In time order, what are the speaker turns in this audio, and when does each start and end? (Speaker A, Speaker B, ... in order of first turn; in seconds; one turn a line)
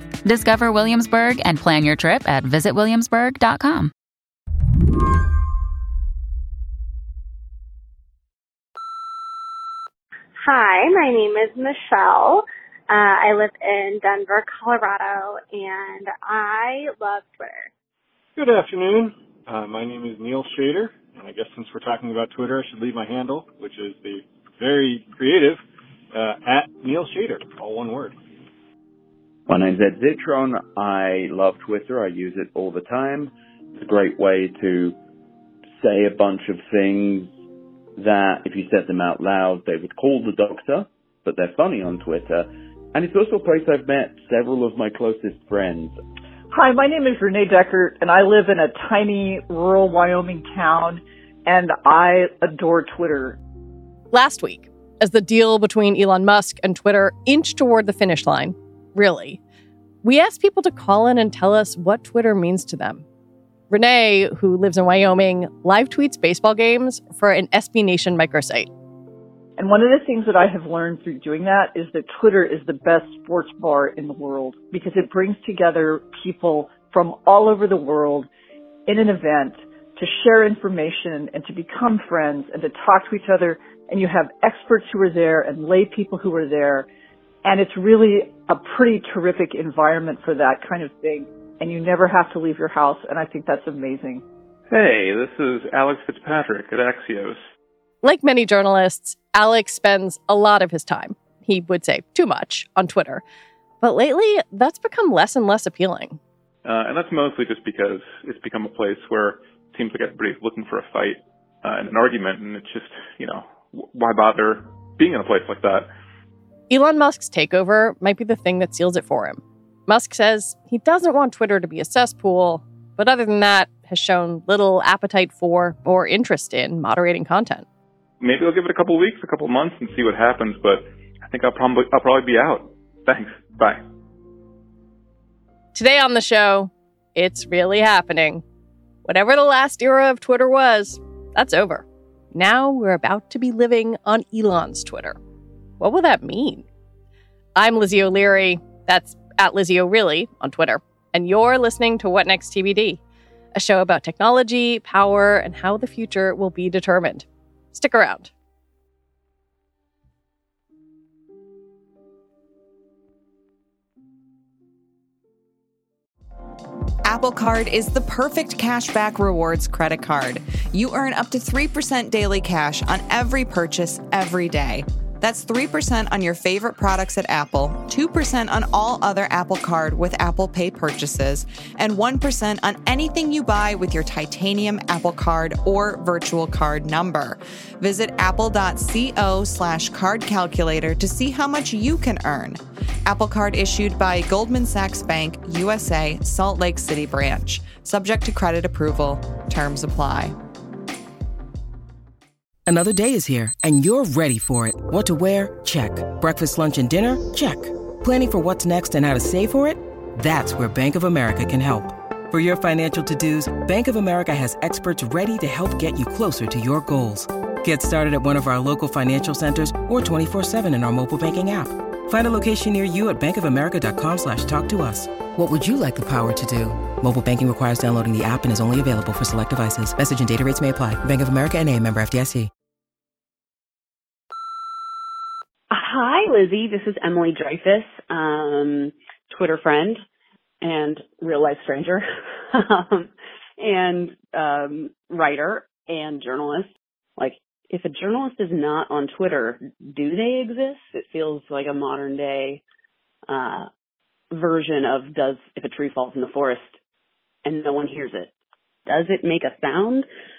Speaker A: 0.2-3.9
Speaker B: 10.4-17.7
Speaker C: 18.4-25.6
Speaker C: 26.1-28.2
Speaker D: 29.5-35.0
Speaker D: 35.7-37.3
Speaker D: 38.0-46.0
Speaker E: 46.5-53.4
Speaker F: 54.1-59.4
Speaker F: 60.0-63.0
Speaker F: 63.7-68.7
Speaker E: 69.6-78.3
Speaker E: 78.9-86.9
Speaker E: 87.5-94.2
Speaker G: 94.7-97.4
Speaker F: 98.0-103.2
Speaker F: 103.8-106.2
Speaker G: 106.7-115.9
Speaker F: 116.7-127.7
Speaker G: 128.2-133.8
Speaker F: 135.7-138.4
Speaker F: 139.1-145.2
Speaker F: 145.8-146.7
Speaker F: 147.6-153.0
Speaker F: 153.5-158.3
Speaker H: 167.1-200.4
Speaker I: 202.7-232.5
Speaker J: 235.7-240.0
Speaker J: 240.6-252.6
Speaker J: 253.3-253.7
Speaker J: 254.3-256.8
Speaker J: 257.4-258.3
Speaker J: 258.9-260.1